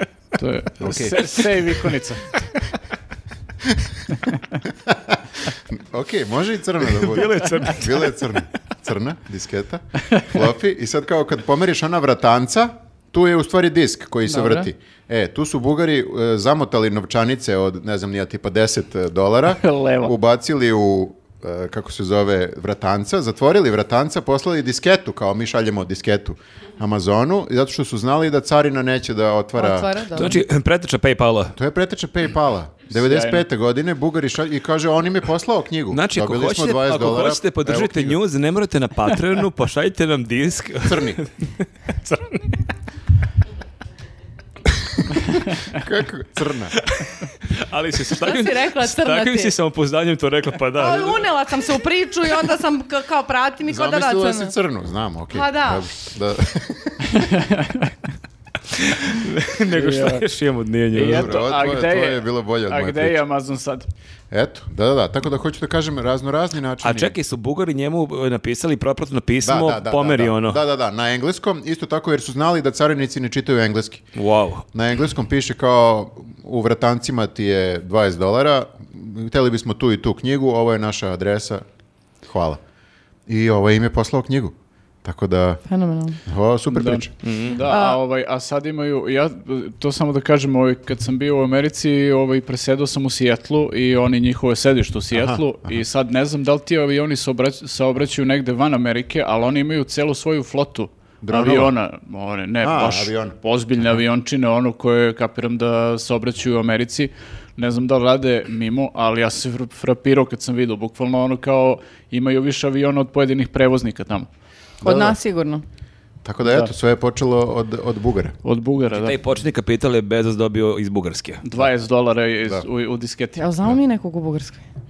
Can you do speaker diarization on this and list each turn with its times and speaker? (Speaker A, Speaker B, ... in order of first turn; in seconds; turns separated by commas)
Speaker A: 0.4-2.3, Speaker B: 0.8-1.3, Speaker B: 3.6-3.9, Speaker B: 4.8-30.0, Speaker C: 6.9-8.2, Speaker A: 14.3-14.7, Speaker A: 19.6-20.1, Speaker D: 29.6-30.4, Speaker C: 30.1-31.6, Speaker B: 31.6-38.2, Speaker A: 32.9-33.4, Speaker C: 35.9-42.4, Speaker B: 40.9-41.2, Speaker B: 45.7-46.8, Speaker C: 46.8-51.2, Speaker D: 48.2-49.5, Speaker D: 50.8-54.5, Speaker B: 53.7-57.3, Speaker D: 55.3-55.9, Speaker A: 57.1-58.0, Speaker C: 58.7-61.4, Speaker A: 59.7-60.2, Speaker A: 60.9-63.9, Speaker B: 61.0-63.2, Speaker B: 64.3-67.1, Speaker C: 66.8-70.6, Speaker B: 69.4-74.1, Speaker C: 74.2-74.6, Speaker B: 74.7-81.6, Speaker B: 82.2-82.6, Speaker B: 83.3-85.6, Speaker D: 85.7-86.2, Speaker B: 86.2-87.1, Speaker A: 86.7-114.3, Speaker C: 87.2-87.6, Speaker D: 87.7-88.0, Speaker B: 95.1-95.5, Speaker B: 101.2-101.7, Speaker B: 102.6-103.4, Speaker B: 114.8-115.2, Speaker D: 114.8-115.6, Speaker B: 116.2-118.4, Speaker A: 116.4-116.7, Speaker A: 118.4-119.2, Speaker C: 118.9-121.4, Speaker A: 121.4-123.5, Speaker D: 123.4-124.7